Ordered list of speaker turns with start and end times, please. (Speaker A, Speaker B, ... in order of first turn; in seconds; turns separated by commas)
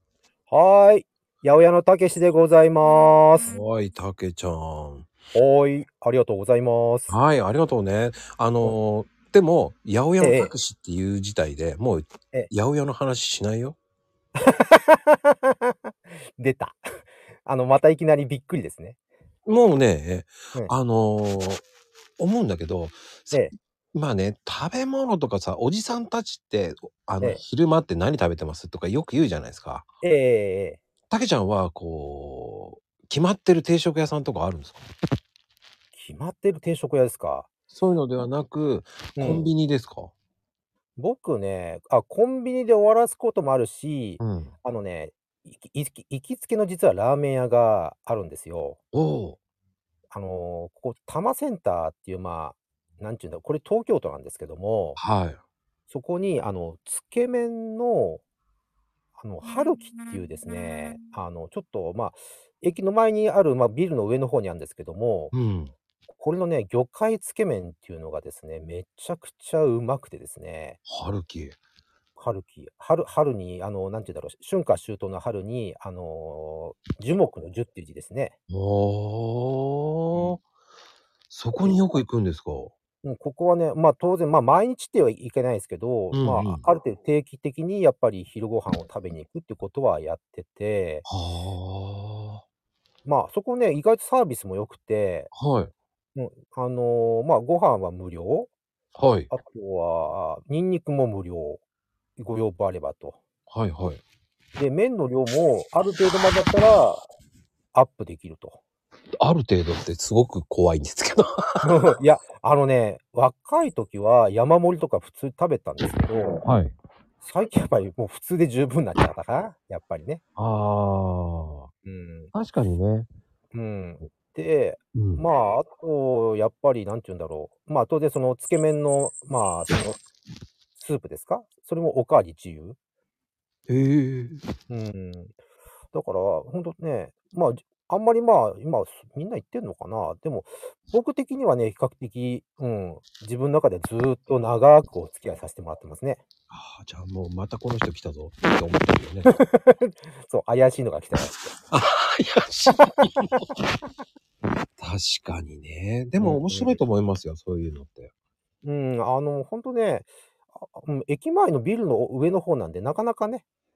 Speaker A: 0.5-3.5, Speaker B: 3.5-5.1, Speaker A: 5.3-7.2, Speaker B: 7.1-13.8, Speaker A: 10.2-10.5, Speaker A: 14.4-16.9, Speaker A: 17.4-19.0, Speaker B: 19.5-21.6, Speaker B: 22.2-29.9, Speaker A: 30.0-30.8, Speaker B: 31.1-34.9, Speaker A: 35.9-37.5, Speaker B: 37.7-40.1, Speaker A: 39.2-39.5, Speaker A: 41.0-48.8, Speaker B: 44.2-44.5, Speaker B: 48.9-49.4, Speaker A: 50.1-55.0, Speaker B: 55.0-55.4, Speaker A: 55.9-58.2, Speaker A: 59.2-65.3, Speaker B: 65.3-65.7, Speaker A: 66.1-70.8, Speaker B: 70.9-71.6, Speaker A: 72.2-78.4, Speaker B: 78.5-80.4, Speaker B: 81.3-82.7, Speaker A: 83.0-91.1, Speaker B: 86.1-86.6, Speaker B: 91.1-92.4, Speaker A: 93.0-95.3, Speaker B: 95.3-95.7, Speaker A: 96.2-98.5, Speaker B: 99.0-99.3, Speaker A: 99.3-101.6, Speaker A: 102.2-103.2, Speaker B: 103.5-104.0, Speaker A: 104.6-107.1, Speaker A: 107.7-108.6, Speaker B: 109.2-111.7, Speaker A: 111.6-116.4, Speaker B: 116.4-116.8, Speaker A: 117.2-120.2, Speaker B: 120.4-121.7, Speaker A: 121.8-122.3, Speaker B: 122.3-123.1, Speaker A: 123.5-130.0, Speaker B: 124.9-125.3, Speaker A: 130.8-132.8, Speaker B: 133.7-134.4, Speaker A: 134.7-135.4, Speaker A: 135.9-146.2, Speaker B: 146.5-149.3, Speaker A: 149.2-151.5, Speaker B: 151.7-153.4, Speaker B: 154.8-158.1, Speaker A: 156.2-156.8, Speaker A: 158.6-163.4